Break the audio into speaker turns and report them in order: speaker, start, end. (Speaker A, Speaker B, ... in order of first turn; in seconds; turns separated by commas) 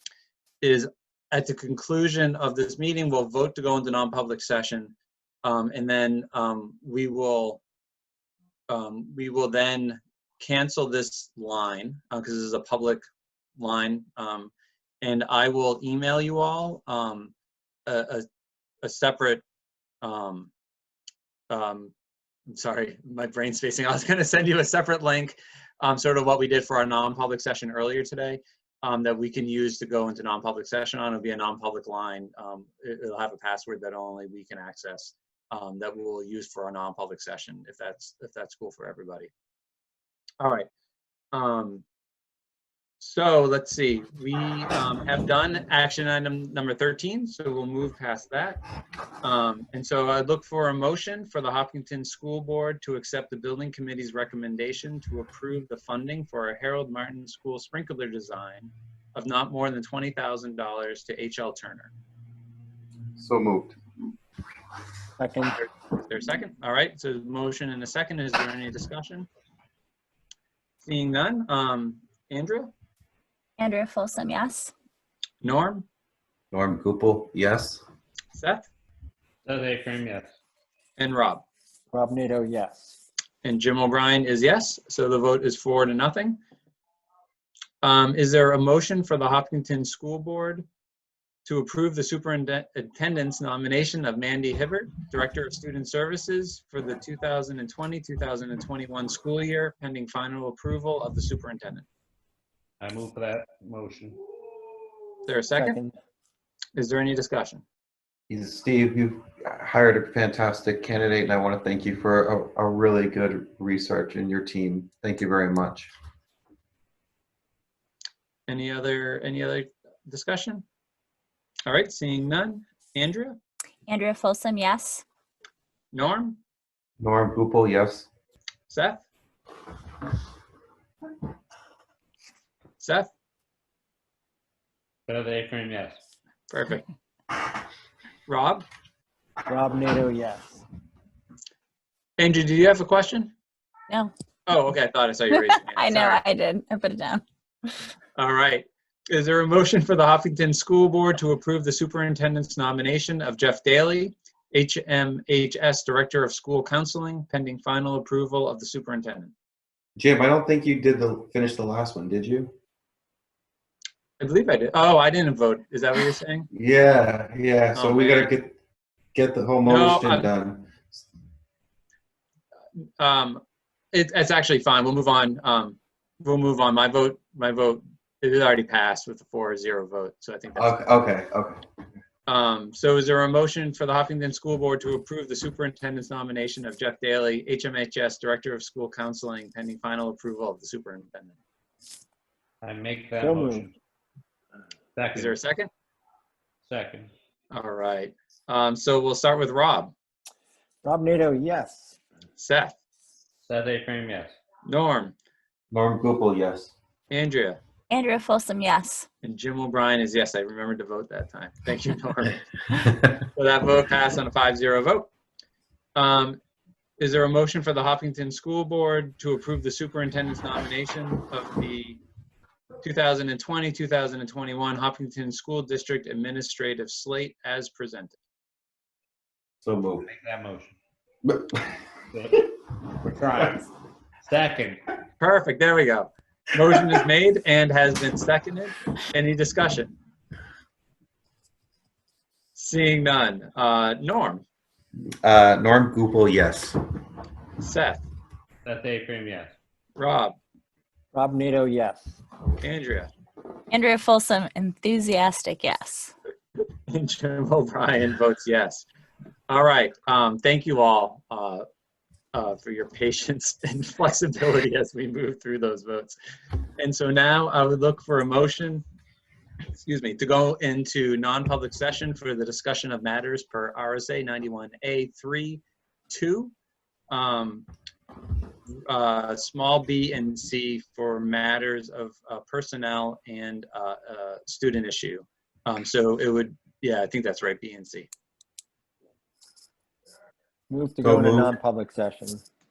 Speaker A: 0.6-7.6, Speaker A: 8.7-13.0, Speaker A: 13.6-17.3, Speaker A: 17.9-18.2, Speaker A: 18.8-19.4, Speaker A: 20.0-20.5, Speaker A: 21.5-21.9, Speaker A: 22.5-39.3, Speaker A: 40.4-40.7, Speaker A: 41.3-41.8, Speaker A: 43.0-48.6, Speaker A: 49.2-61.9, Speaker B: 63.2-63.8, Speaker C: 65.2-65.6, Speaker A: 65.6-69.3, Speaker A: 70.8-72.7, Speaker D: 73.6-74.7, Speaker A: 75.4-75.8, Speaker B: 76.5-77.8, Speaker A: 78.3-78.7, Speaker E: 79.5-80.3, Speaker A: 81.0-81.4, Speaker C: 81.9-83.0, Speaker A: 83.4-86.4, Speaker A: 87.8-90.6, Speaker A: 91.4-101.8, Speaker E: 102.8-104.2, Speaker A: 105.2-105.8, Speaker C: 105.5-105.9, Speaker A: 106.8-107.6, Speaker B: 108.3-115.9, Speaker A: 118.5-120.6, Speaker A: 121.7-123.4, Speaker D: 123.9-125.0, Speaker A: 125.9-126.4, Speaker B: 127.0-128.1, Speaker A: 128.7-129.0, Speaker A: 132.8-133.1, Speaker E: 135.1-136.0, Speaker A: 136.5-136.8, Speaker A: 138.3-138.6, Speaker C: 139.5-140.6, Speaker A: 142.2-143.3, Speaker A: 144.5-146.2, Speaker D: 145.3-147.2, Speaker A: 148.2-159.3, Speaker B: 160.0-162.5, Speaker A: 164.2-166.5, Speaker B: 166.5-168.6, Speaker A: 167.7-168.3, Speaker B: 169.1-171.0, Speaker A: 169.7-170.3, Speaker A: 173.0-180.8, Speaker B: 180.6-181.6, Speaker A: 182.3-191.3, Speaker E: 192.6-193.7, Speaker C: 193.2-193.7, Speaker E: 194.9-195.3, Speaker A: 195.1-195.7, Speaker E: 196.7-197.1, Speaker A: 197.5-199.9, Speaker C: 200.8-201.9, Speaker A: 202.4-202.8, Speaker E: 203.4-204.4, Speaker A: 204.6-205.1, Speaker B: 205.7-206.7, Speaker A: 207.1-207.6, Speaker D: 207.9-209.1, Speaker A: 209.2-215.1, Speaker A: 215.9-216.4, Speaker A: 217.0-222.0, Speaker A: 222.8-228.1, Speaker B: 229.6-230.1, Speaker E: 230.0-230.7, Speaker B: 231.2-231.7, Speaker E: 232.1-233.7, Speaker E: 234.2-234.8, Speaker A: 235.2-239.9, Speaker A: 242.6-244.4, Speaker B: 245.2-246.8, Speaker A: 247.6-248.0, Speaker E: 248.6-249.5, Speaker A: 249.9-250.3, Speaker C: 251.1-252.2, Speaker A: 252.6-253.1, Speaker D: 253.7-256.1, Speaker A: 256.9-258.9, Speaker A: 259.5-261.6, Speaker A: 262.3-266.1, Speaker A: 266.8-268.8, Speaker A: 269.7-276.5, Speaker A: 277.1-277.7, Speaker A: 278.8-288.1, Speaker C: 290.7-292.4, Speaker B: 291.0-291.5